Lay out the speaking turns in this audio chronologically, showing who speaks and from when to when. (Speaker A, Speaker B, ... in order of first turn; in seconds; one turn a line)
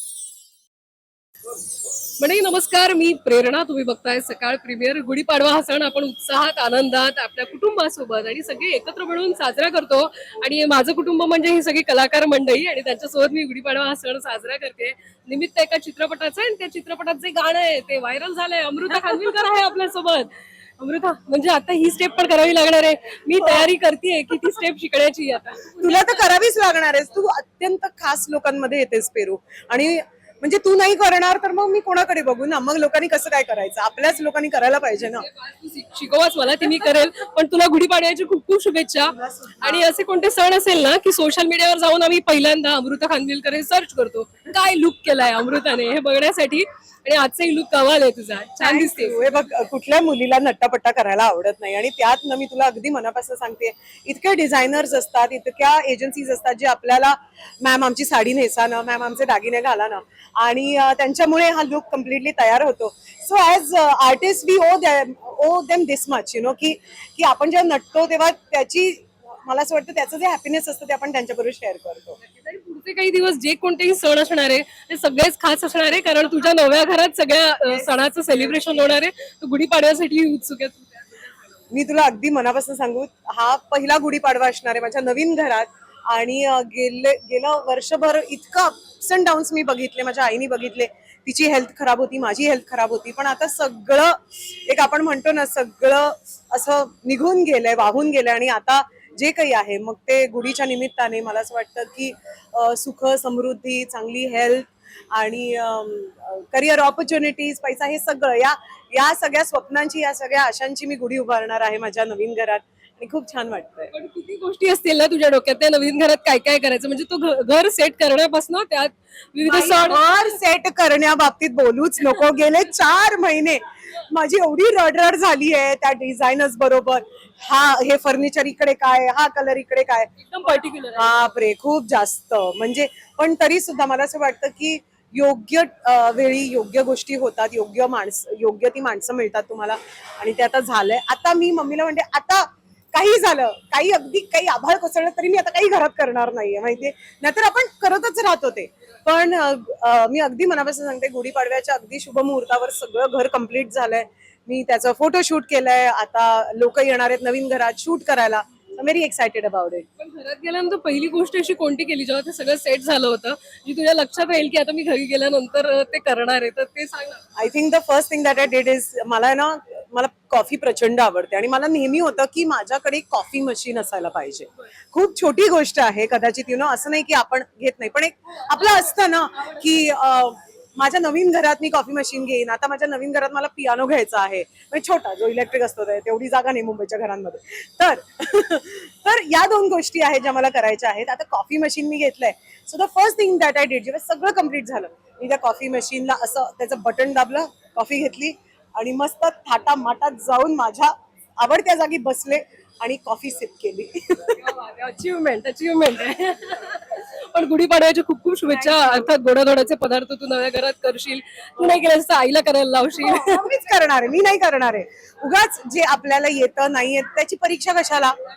Speaker A: 2.2-26.3
Speaker B: 25.8-35.3
Speaker A: 35.1-49.3
Speaker B: 39.1-39.9
Speaker B: 48.6-72.2
Speaker A: 72.3-81.3
Speaker B: 77.7-78.6
Speaker B: 81.7-113.9
Speaker A: 113.9-120.2
Speaker B: 119.5-130.1
Speaker A: 130.2-131.2
Speaker B: 131.0-159.9
Speaker A: 160.0-167.2
Speaker B: 167.4-204.4
Speaker A: 178.5-179.6
Speaker A: 204.4-213.5
Speaker B: 208.5-209.1
Speaker B: 213.0-218.2